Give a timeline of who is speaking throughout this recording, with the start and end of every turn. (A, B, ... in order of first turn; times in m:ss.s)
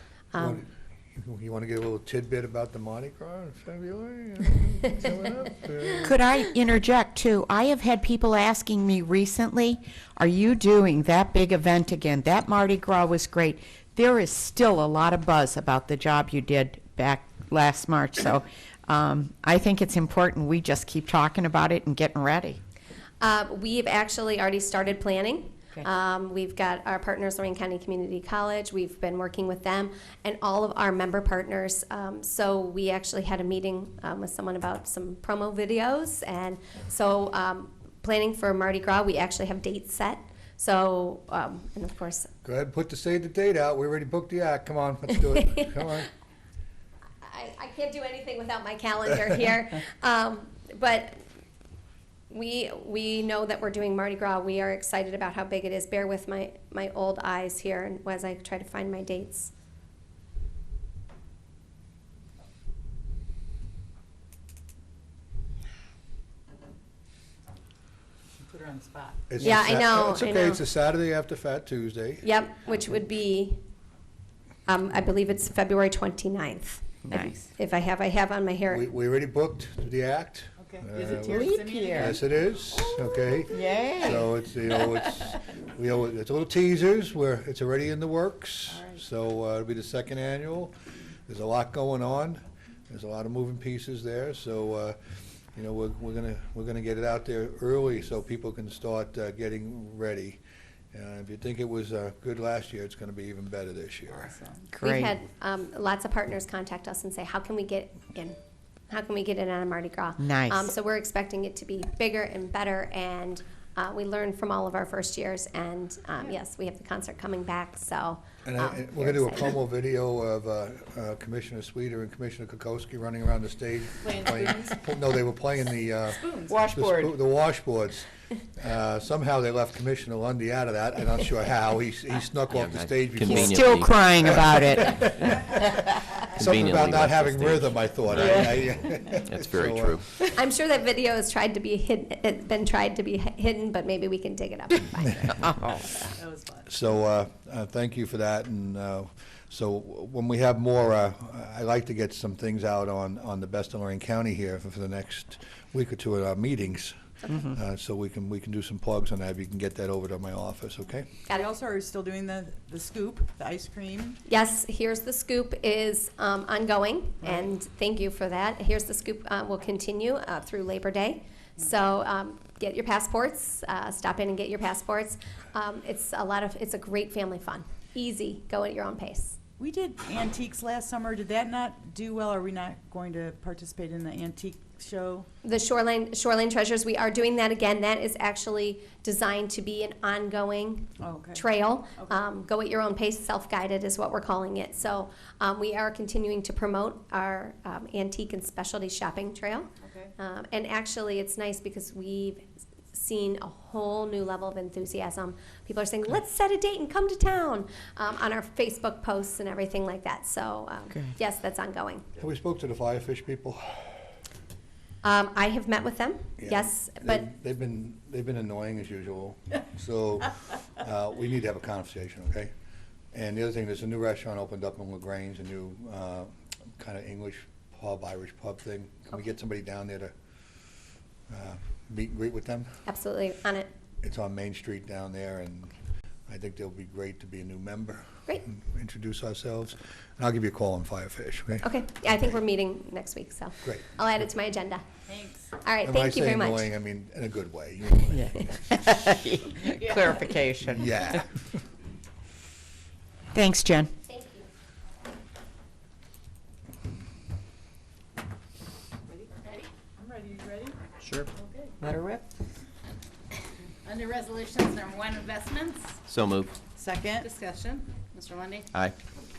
0:00.3-0:00.6 A
0:00.4-0:06.1 B
0:06.0-0:22.6 C
0:23.2-0:42.3 A
0:42.4-0:46.1 B
0:47.2-0:51.2 A
0:52.3-0:59.5 A
1:08.4-1:09.2 D
1:09.3-1:12.2 B
1:09.4-1:10.6 A
1:12.2-1:13.6 A
1:14.7-1:18.9 A
1:17.0-1:17.4 C
1:18.7-1:30.7 B
1:20.6-1:23.9 D
1:21.2-1:22.2 C
1:23.5-1:24.2 C
1:28.7-1:29.0 D
1:31.3-1:35.0 B
1:35.6-1:40.4 B
1:40.9-1:44.3 B
1:44.1-1:44.7 D
1:44.7-1:45.1 C
1:44.8-1:48.4 A
1:48.9-1:59.6 A
1:50.2-1:50.6 C
1:58.4-2:15.4 B
2:04.0-2:04.8 D
2:06.1-2:06.6 D
2:06.5-2:07.2 C
2:12.6-2:13.9 E
2:13.2-2:15.8 C
2:16.3-2:20.0 B
2:16.4-2:17.7 E
2:19.3-2:20.0 E
2:20.4-2:26.1 A
2:26.2-2:26.7 D
2:26.7-2:41.1 B
2:41.3-2:44.2 D
2:44.3-2:59.4 A
2:59.6-3:05.3 D
3:05.4-3:32.0 A
3:11.0-3:11.5 D
3:19.8-3:20.1 D
3:32.2-3:34.0 B
3:35.0-3:37.2 A
3:36.4-3:42.5 B
3:43.1-3:50.1 B
3:51.3-3:52.7 B
3:52.9-3:53.7 A
3:54.0-3:55.8 B
3:56.3-4:01.7 B
4:01.6-4:04.8 A
4:05.1-4:05.4 D
4:05.5-4:06.7 A
4:05.8-4:08.8 B
4:08.2-4:11.0 C
4:10.6-4:11.3 B
4:13.3-4:13.9 C
4:14.0-4:14.5 A
4:19.4-4:19.7 F
4:20.0-4:20.8 D
4:21.8-4:22.2 C
4:23.8-4:26.0 F
4:26.1-4:26.6 E
4:26.7-4:27.3 D
4:27.2-4:28.7 F